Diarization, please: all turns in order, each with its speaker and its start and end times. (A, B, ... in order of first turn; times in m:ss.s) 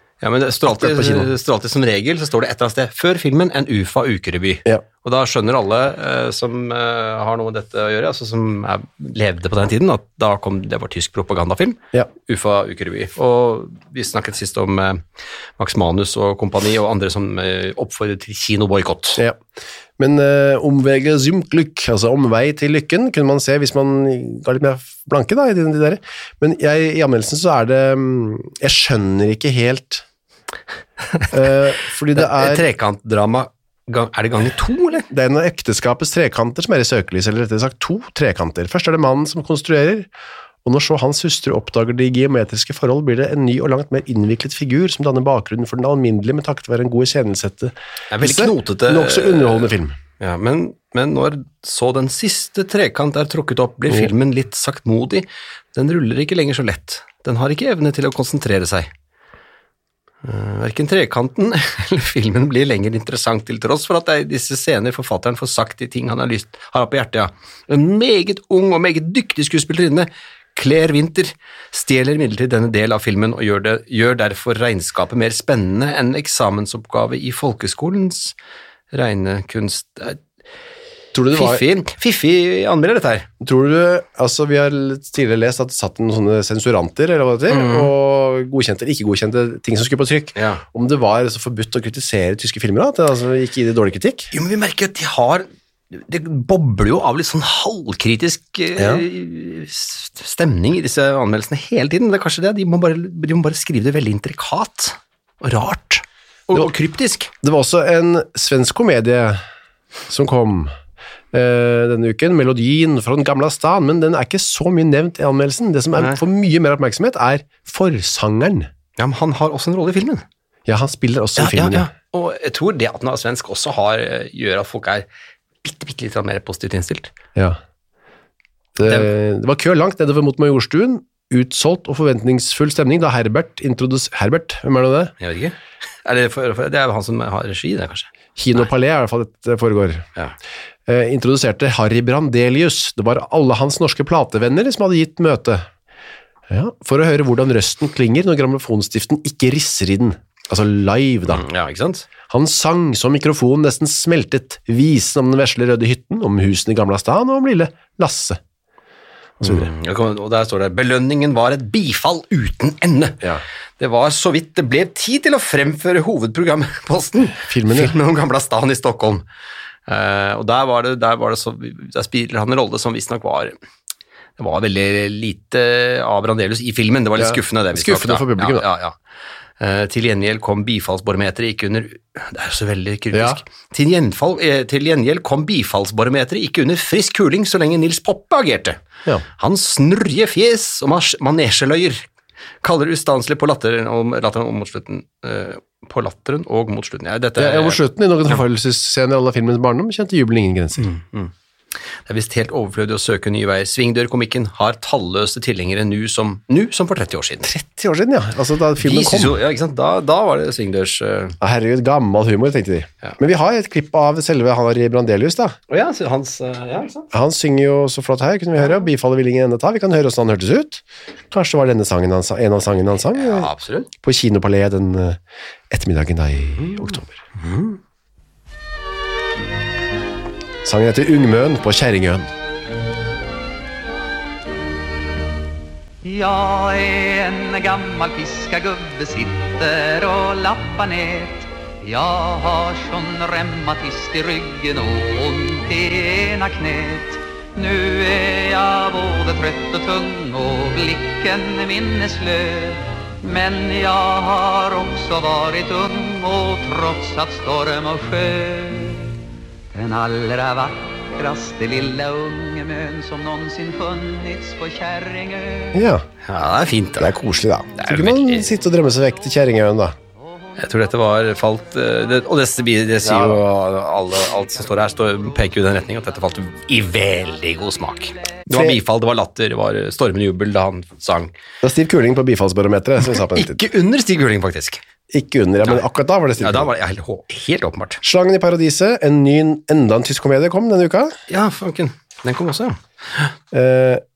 0:00.2-0:15.0 A
0:00.6-0:01.3 B
0:15.6-0:19.2 A
0:20.0-0:30.0 B
0:31.3-0:32.6 B
0:32.1-0:35.1 A
0:35.1-0:40.1 B
0:40.6-0:50.0 B
0:48.1-0:58.9 A
1:00.2-1:18.4 A
1:18.9-1:20.2 A
1:21.1-1:21.6 B
1:21.3-1:23.3 A
1:23.4-1:34.3 B
1:27.5-1:27.9 A
1:30.3-1:30.6 A
1:34.3-1:47.3 A
1:38.8-1:39.0 B
1:47.4-1:49.4 B
1:50.1-1:50.7 B
1:51.3-1:58.7 B
1:59.0-2:00.2 A
2:00.6-2:01.9 B
2:01.4-2:05.1 A
2:05.6-2:07.1 A
2:08.8-2:15.1 B
2:08.8-2:09.1 A
2:15.2-2:18.6 A
2:18.4-2:20.1 B
2:20.9-2:25.7 B
2:26.5-2:31.4 B
2:31.3-2:32.1 A
2:32.3-2:38.4 B
2:39.4-2:39.7 B
2:39.4-2:43.3 A
2:43.8-2:49.2 A
2:47.2-2:47.9 B
2:49.9-2:53.5 A
2:54.4-2:59.0 A
2:57.2-2:58.6 B
2:59.6-3:08.8 A
3:03.1-3:03.4 B
3:09.4-3:12.1 A
3:12.6-3:18.4 A
3:17.4-3:20.9 B
3:20.8-3:21.3 A
3:22.0-3:27.5 A
3:27.4-3:29.4 B
3:28.8-3:31.4 A
3:31.4-3:35.6 B
3:35.7-3:37.1 A
3:37.1-3:47.2 B
3:43.1-3:43.9 A
3:47.4-3:47.8 A
3:50.6-3:52.3 B
3:56.0-4:19.1 C
4:19.7-4:25.8 C
4:25.7-4:26.0 B
4:26.2-4:27.1 A
4:27.0-4:29.9 B
4:27.8-4:28.5 A
4:30.6-4:41.3 A
4:33.0-4:33.4 B
4:38.5-4:38.8 B
4:41.6-4:43.6 B
4:43.1-4:44.8 A
4:45.1-4:46.7 B
4:46.4-4:48.0 A
4:48.0-4:51.1 B
4:51.3-4:53.3 A
4:53.5-4:54.0 B